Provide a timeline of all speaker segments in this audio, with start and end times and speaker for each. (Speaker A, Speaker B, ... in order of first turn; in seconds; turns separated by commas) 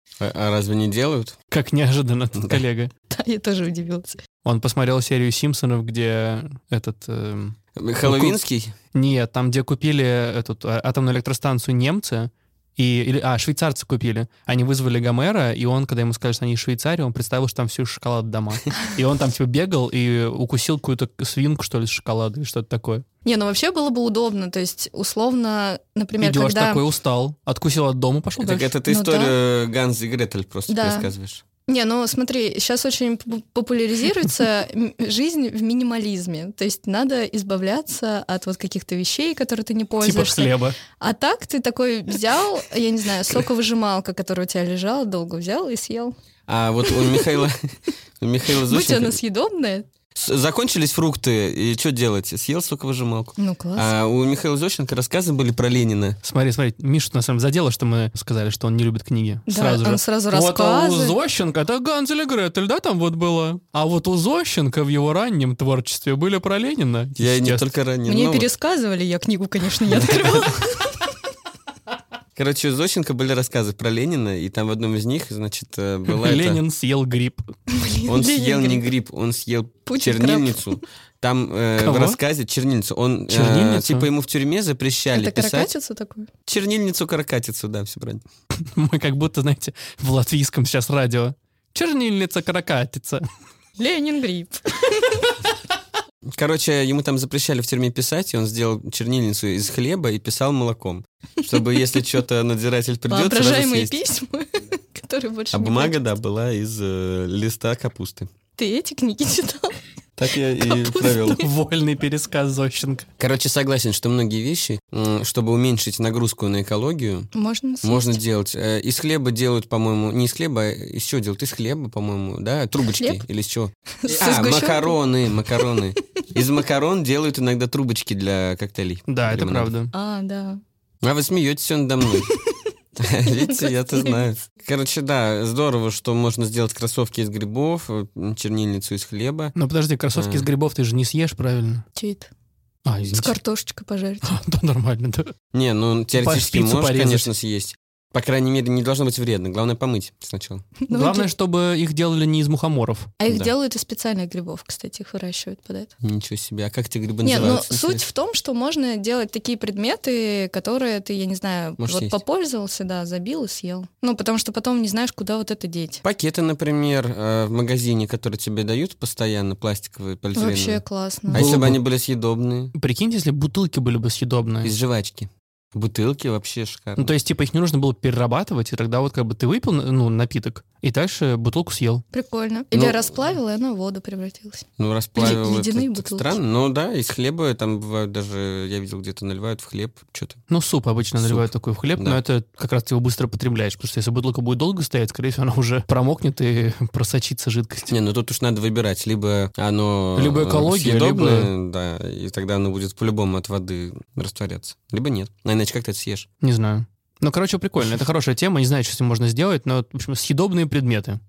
Speaker A: 0.2-1.4, Speaker B: 1.5-2.9, Speaker C: 3.1-4.2, Speaker B: 4.4-8.4, Speaker A: 7.8-8.7, Speaker B: 8.9-23.1, Speaker C: 23.2-26.8, Speaker B: 26.2-28.7, Speaker A: 28.4-31.4, Speaker C: 28.9-29.3, Speaker C: 30.7-31.1, Speaker C: 31.7-46.1, Speaker B: 40.0-40.8, Speaker A: 46.5-49.2, Speaker C: 46.9-47.4, Speaker C: 48.6-49.9, Speaker A: 50.1-56.2, Speaker C: 53.4-53.9, Speaker B: 56.2-67.7, Speaker C: 59.5-61.2, Speaker A: 67.2-68.5, Speaker C: 68.0-71.0, Speaker A: 70.0-70.5, Speaker A: 72.3-76.6, Speaker B: 76.1-77.5, Speaker C: 77.7-78.9, Speaker A: 78.0-85.7, Speaker C: 79.9-80.8, Speaker B: 81.8-82.2, Speaker B: 83.3-84.1, Speaker C: 85.1-86.3, Speaker A: 86.5-88.2, Speaker B: 88.6-93.2, Speaker C: 93.8-95.3, Speaker A: 96.3-103.9, Speaker C: 103.1-106.0, Speaker A: 105.5-108.3, Speaker C: 108.6-109.8, Speaker A: 110.2-111.4, Speaker C: 110.6-111.5, Speaker B: 111.3-113.1, Speaker A: 113.2-117.3, Speaker C: 117.3-118.2, Speaker A: 117.8-129.7, Speaker C: 122.9-123.2, Speaker C: 124.0-125.0, Speaker B: 129.1-129.9, Speaker C: 129.9-130.6, Speaker A: 131.0-132.3, Speaker C: 132.3-132.5, Speaker A: 133.0-139.5, Speaker C: 133.4-134.2, Speaker B: 139.5-141.8, Speaker A: 140.1-140.5, Speaker C: 141.9-142.3, Speaker B: 142.8-143.3, Speaker C: 143.1-144.3, Speaker B: 144.2-145.3, Speaker A: 145.5-150.7, Speaker B: 146.2-147.3, Speaker C: 150.8-151.3, Speaker B: 150.9-153.1, Speaker C: 153.2-155.9, Speaker A: 156.0-158.0, Speaker C: 157.2-166.0, Speaker A: 161.8-162.2, Speaker A: 166.0-172.7, Speaker C: 170.3-171.5, Speaker B: 171.3-171.8, Speaker B: 172.7-174.7, Speaker A: 174.6-177.1, Speaker B: 177.0-182.0, Speaker C: 182.1-186.3, Speaker A: 182.7-183.0, Speaker A: 184.8-190.4, Speaker B: 190.5-197.9, Speaker A: 191.2-192.2, Speaker A: 197.9-206.3, Speaker B: 200.2-201.5, Speaker B: 206.4-211.2